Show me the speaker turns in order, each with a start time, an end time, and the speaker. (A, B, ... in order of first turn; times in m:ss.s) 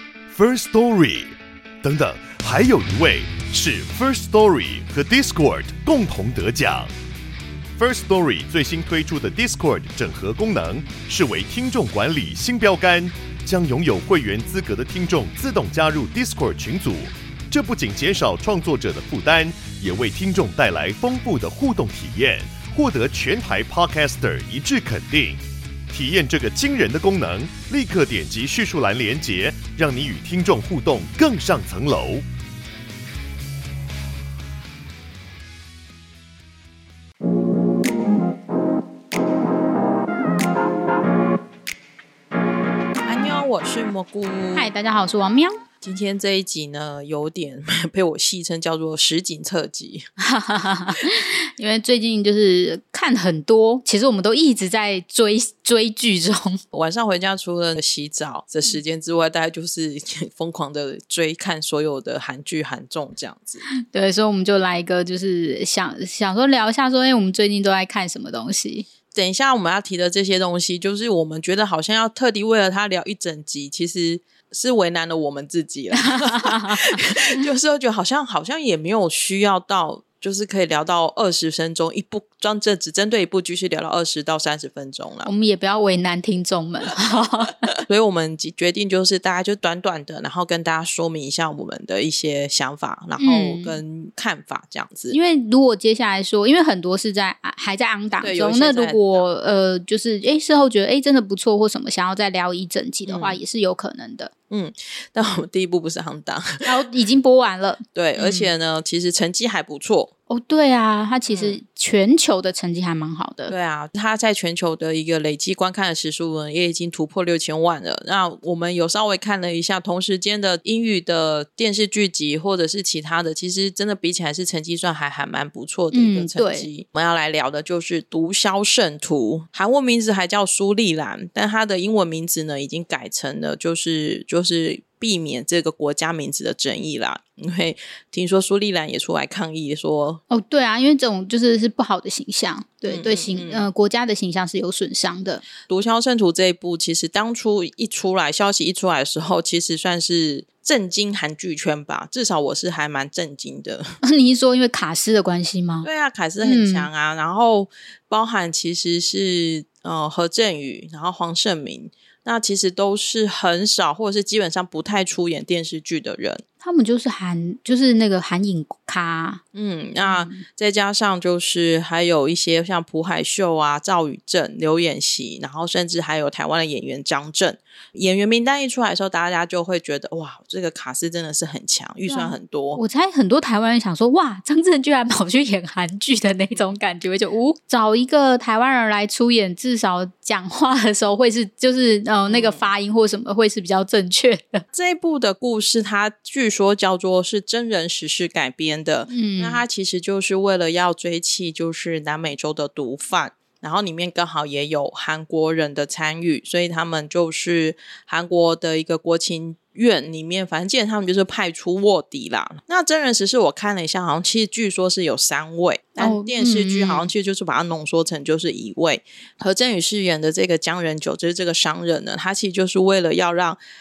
0:00.3-0:06.9 A
0:07.8-0:32.2 A
0:43.0-0:44.7 B
0:44.5-0:45.6 C
0:45.8-0:50.0 B
0:50.2-0:56.6 C
0:56.7-1:03.6 B
1:03.9-1:08.8 C
1:09.1-1:25.3 B
1:16.0-1:17.0 C
1:25.2-1:27.7 C
1:27.8-1:35.2 B
1:33.2-1:33.8 C
1:35.1-1:44.3 C
1:38.2-1:39.2 B
1:43.1-1:43.4 B
1:44.5-1:46.7 B
1:46.6-1:48.5 C
1:47.9-1:50.1 B
1:50.3-1:53.5 C
1:51.3-1:51.6 B
1:53.5-2:20.2 B
2:05.9-2:06.7 C
2:20.3-2:25.4 C
2:22.9-2:23.6 B
2:25.7-2:33.9 B
2:34.0-2:35.9 C
2:35.8-2:46.4 B
2:36.4-2:36.9 C
2:46.6-2:49.4 C
2:49.5-3:02.8 B
2:50.0-2:50.4 C
3:02.1-3:14.6 C
3:12.3-3:12.6 B
3:14.7-3:43.6 B
3:19.1-3:19.6 C
3:36.0-3:37.1 C